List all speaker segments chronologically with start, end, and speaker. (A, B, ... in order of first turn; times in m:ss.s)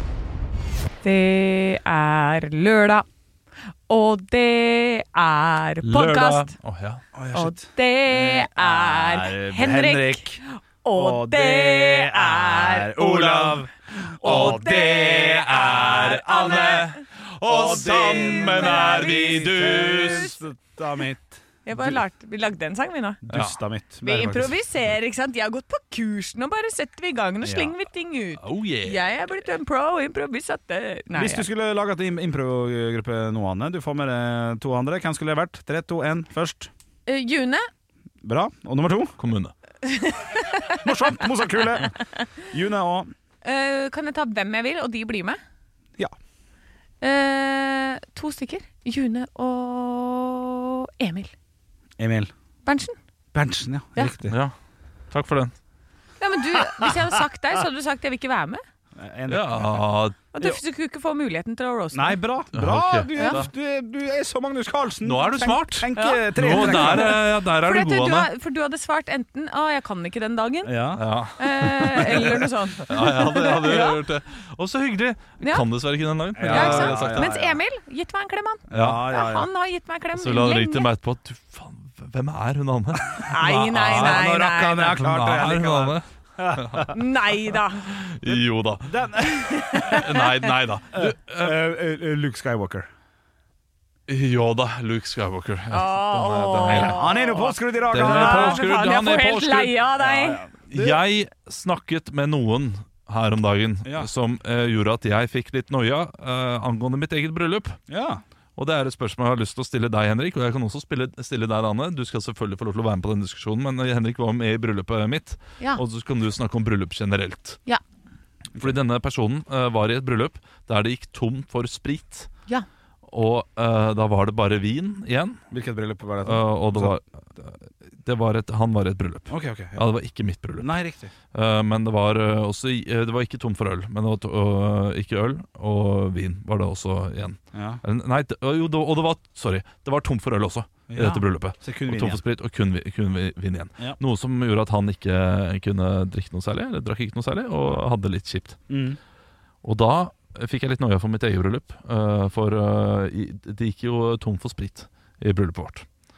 0:01.0-0:03.0 A
0:03.9-0:06.5 A
0:05.8-0:07.0 B
0:07.2-0:10.4 C
0:07.3-0:10.2 A
0:10.8-0:13.6 A
0:10.9-0:16.8 C
0:14.2-0:16.9 A
0:14.2-0:20.4 B
0:17.5-0:22.0 C
0:17.5-0:20.3 A
0:21.6-0:23.2 A
0:23.3-0:23.6 B
0:23.3-0:24.6 C
0:24.0-0:31.5 A
0:27.4-0:27.7 C
0:28.4-0:29.1 B
0:31.1-0:36.7 C
0:37.1-0:37.7 A
0:38.2-0:39.2 C
0:39.2-0:39.5 B
0:39.8-0:40.8 A
0:40.8-0:42.0 C
0:42.5-0:43.1 C
0:43.4-0:45.4 A
0:47.0-0:51.3 A
0:52.0-0:52.3 C
0:52.6-0:53.0 A
0:53.3-0:54.4 C
0:54.2-0:54.5 B
0:55.1-0:55.5 B
0:56.2-0:58.6 A
0:59.0-0:59.9 C
0:59.3-1:00.6 B
1:00.3-1:02.2 A
1:01.9-1:07.2 C
1:02.5-1:03.5 B
1:05.0-1:08.3 B
1:05.4-1:10.8 A
1:10.6-1:11.0 C
1:11.0-1:17.4 B
1:11.4-1:14.0 A
1:16.4-1:17.6 C
1:16.5-1:20.9 A
1:18.7-1:19.5 C
1:18.7-1:19.0 B
1:20.1-1:26.9 B
1:23.3-1:24.9 A
1:23.7-1:27.0 C
1:26.9-1:28.0 A
1:27.9-1:29.1 B
1:28.9-1:30.0 C
1:29.3-1:30.3 A
1:29.7-1:31.6 B
1:30.9-1:32.9 C
1:34.1-1:37.1 B
1:35.7-1:40.4 A
1:36.7-1:38.7 C
1:37.9-1:39.8 B
1:40.0-1:41.0 C
1:40.7-1:47.8 B
1:43.8-1:44.1 C
1:47.9-1:48.2 C
1:48.6-1:57.6 B
1:58.6-2:02.3 B
2:03.1-2:05.4 B
2:05.5-2:07.0 C
2:06.2-2:10.7 B
2:09.3-2:09.8 C
2:10.6-2:11.1 C
2:11.3-2:28.6 B
2:17.5-2:17.8 C
2:20.9-2:22.2 C
2:28.7-2:29.0 C
2:29.6-2:35.9 B